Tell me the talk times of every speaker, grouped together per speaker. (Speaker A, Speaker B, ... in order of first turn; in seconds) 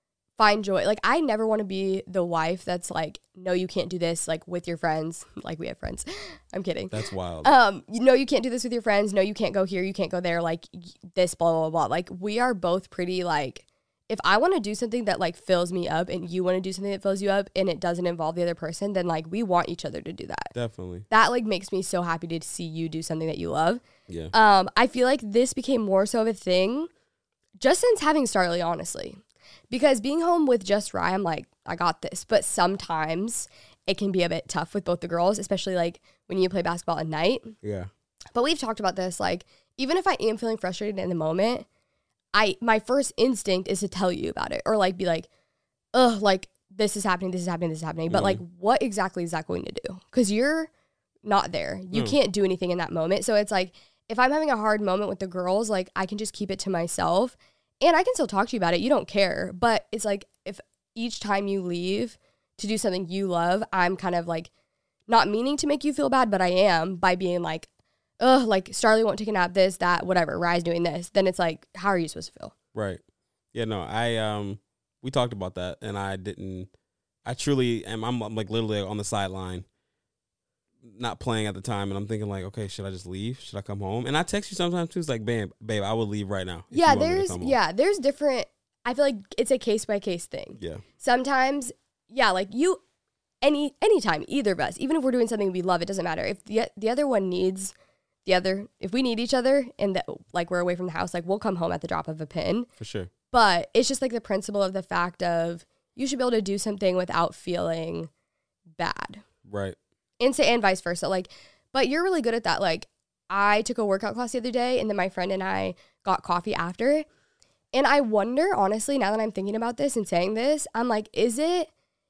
Speaker A: 0.4-20.5, 21.1-26.9, 27.6-29.2, 29.7-37.6, 38.3-41.7, 42.3-45.3, 45.9-50.7, 51.2-64.5, 65.1-67.7, 68.2-72.5, 86.7-92.8, 93.4-97.7, 98.2-102.7, 103.3-108.1, 108.8-109.2, 110.2-117.1, 117.7-121.7
Speaker B: 6.9-7.5, 20.5-21.1, 24.1-24.3, 37.6-37.9, 48.1-48.4, 72.7-73.0, 73.5-76.7, 77.2-79.7, 80.8-87.6, 90.6-90.8, 102.8-103.1, 109.5-109.8